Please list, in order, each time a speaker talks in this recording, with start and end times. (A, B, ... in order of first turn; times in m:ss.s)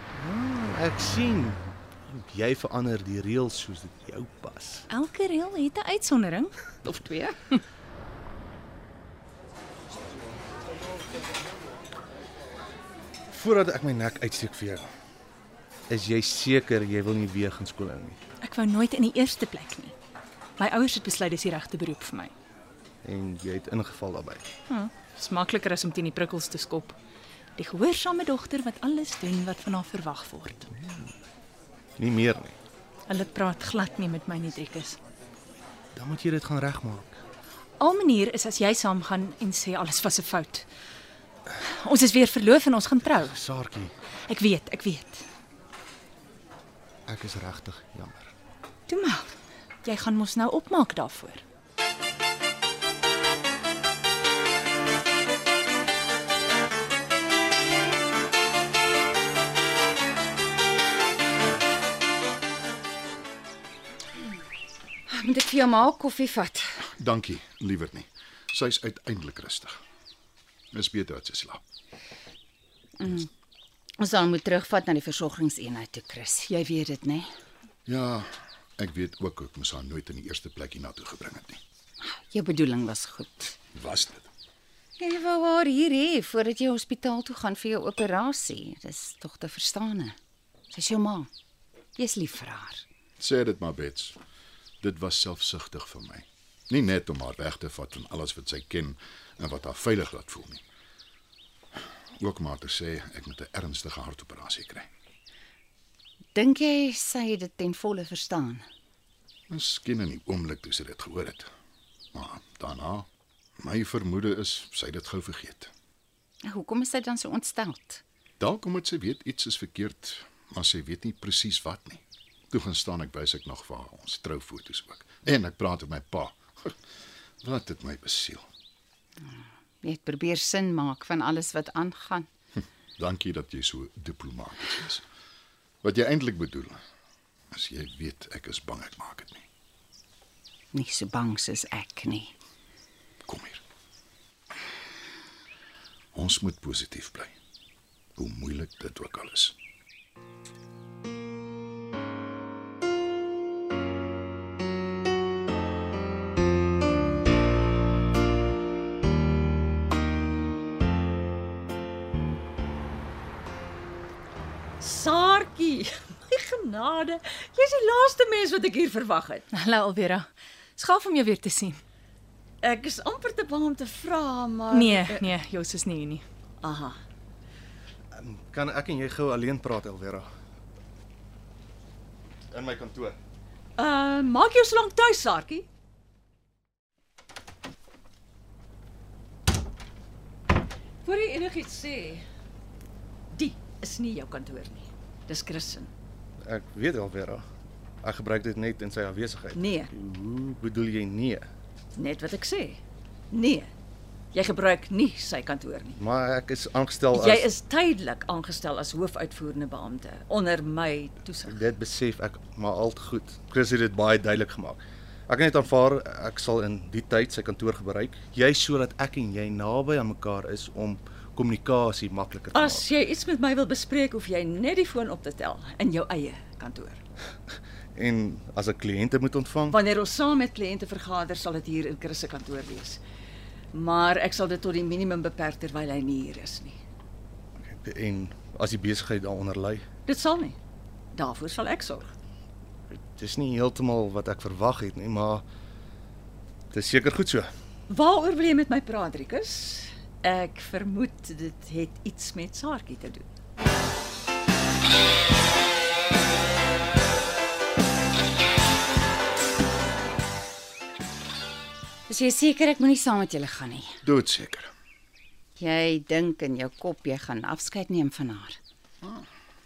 0:00.1-0:04.8 A
0:04.9-0:07.6 B
0:13.3-0:14.9 A
0:15.9-0:18.2 A
0:18.4-0:19.9 B
0:20.6-0:22.3 B
0:23.0-0:24.4 A
0:24.7-0:27.0 B
0:27.6-0:30.7 B
0:30.8-0:31.1 A
0:32.0-0:32.6 A
0:33.1-0:35.0 B
0:36.0-0:37.2 A
0:37.8-0:40.6 B
0:41.6-0:43.3 B
0:43.2-0:43.9 A
0:44.3-0:45.2 B
0:47.1-0:48.3 A
0:48.9-0:51.4 B
1:05.1-1:06.8 C
1:06.9-1:09.7 D
1:10.7-1:11.6 D
1:13.0-1:13.3 C
1:14.0-1:17.3 C
1:17.8-1:21.6 D
1:22.0-1:23.6 C
1:23.7-1:24.3 D
1:25.0-1:30.2 C
1:30.7-1:31.3 C
1:32.0-1:32.8 C
1:33.2-1:34.2 D
1:34.8-1:40.6 D
1:42.2-1:44.9 D
1:46.3-1:48.6 C
1:49.5-1:51.5 D
1:52.1-1:53.1 D
1:53.6-1:55.7 D
1:56.4-1:58.0 C
1:58.4-2:06.8 D
2:07.4-2:08.5 D
2:09.8-2:12.3 C
2:13.0-2:15.0 D
2:15.8-2:16.8 D
2:17.5-2:19.4 D
2:20.7-2:22.3 C
2:23.2-2:23.6 D
2:26.1-2:27.3 D
2:28.2-2:29.5 D
2:44.8-2:49.5 E
2:49.5-2:51.8 B
2:52.6-2:55.3 E
2:54.7-2:56.2 B
2:56.6-2:57.0 E
2:58.2-3:00.2 A
3:02.5-3:03.2 A
3:03.8-3:05.7 E
3:11.0-3:12.2 E
3:13.3-3:15.9 E
3:16.4-3:17.4 A
3:18.0-3:21.5 A
3:19.5-3:19.9 E
3:22.0-3:23.7 E
3:24.3-3:26.0 E
3:26.0-3:27.5 A
3:27.1-3:31.6 E
3:31.5-3:42.9 A
3:42.5-3:47.0 E
3:48.0-3:49.8 A
3:49.7-3:53.0 E
3:53.7-3:56.8 E
3:57.6-3:59.8 A
4:00.0-4:00.6 E
4:01.1-4:02.1 E
4:02.9-4:05.4 A
4:06.7-4:07.5 A
4:07.9-4:13.3 E
4:22.1-4:24.0 C
4:24.0-4:24.7 D
4:25.6-4:28.6 C
4:29.0-4:29.3 D